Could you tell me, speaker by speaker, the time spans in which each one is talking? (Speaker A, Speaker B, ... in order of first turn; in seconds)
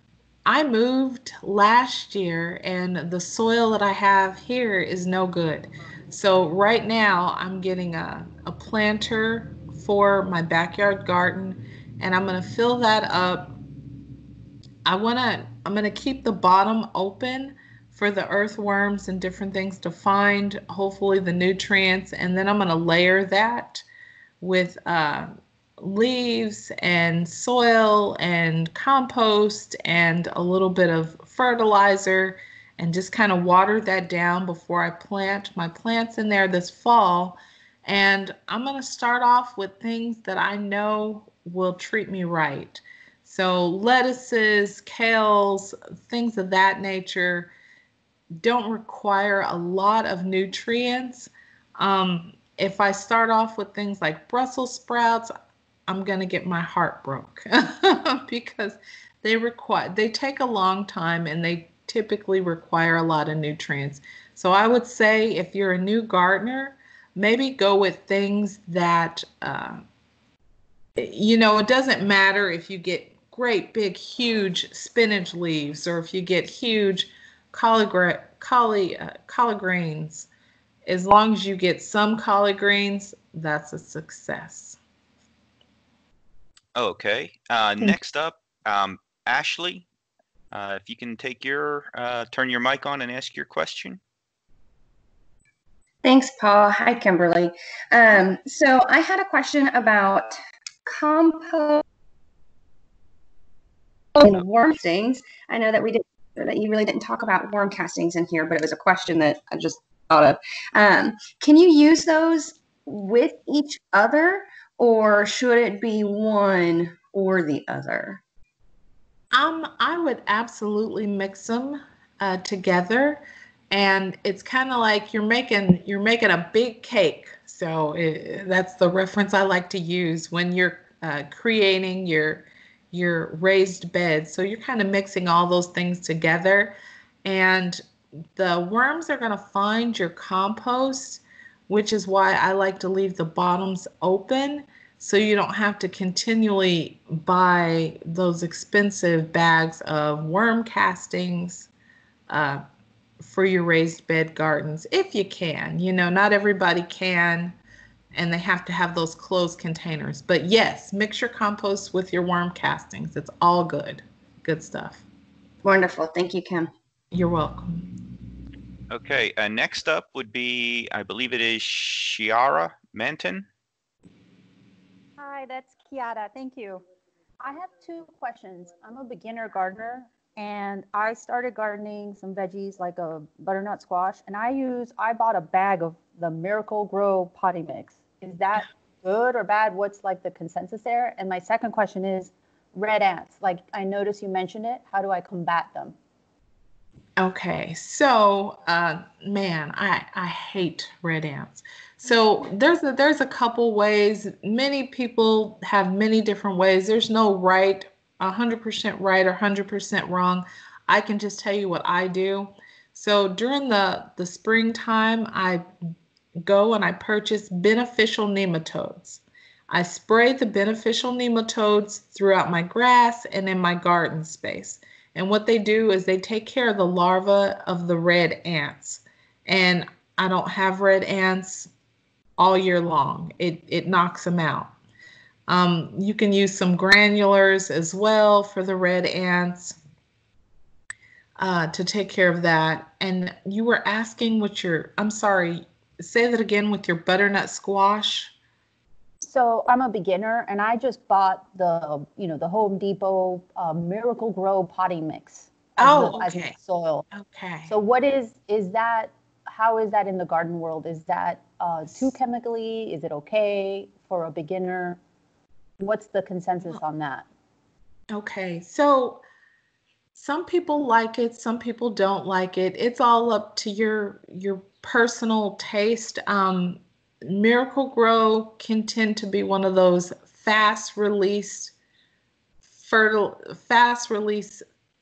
Speaker A: 0.4-13.5, 14.8-23.8, 24.4-47.5, 48.4-55.3, 55.9-69.8, 71.0-80.3, 80.9-84.8, 119.3-136.7, 137.2-137.8, 138.3-151.7, 152.3-152.6, 153.2-157.5, 158.1-165.0, 167.1-167.9, 197.2-215.6, 216.4-231.7, 232.4-234.7, 235.5-239.8, 241.4-248.3, 255.8-256.5, 257.1-257.7, 268.1-269.2, 270.1-281.7, 282.8-284.6
Speaker B: 86.7-89.8, 90.5-94.0, 168.9-173.5
Speaker C: 96.0-100.3, 100.8-101.8, 104.2-118.2, 165.6-166.7
Speaker D: 175.2-176.8, 177.4-195.9, 249.2-257.1, 257.6-265.0, 265.8-267.2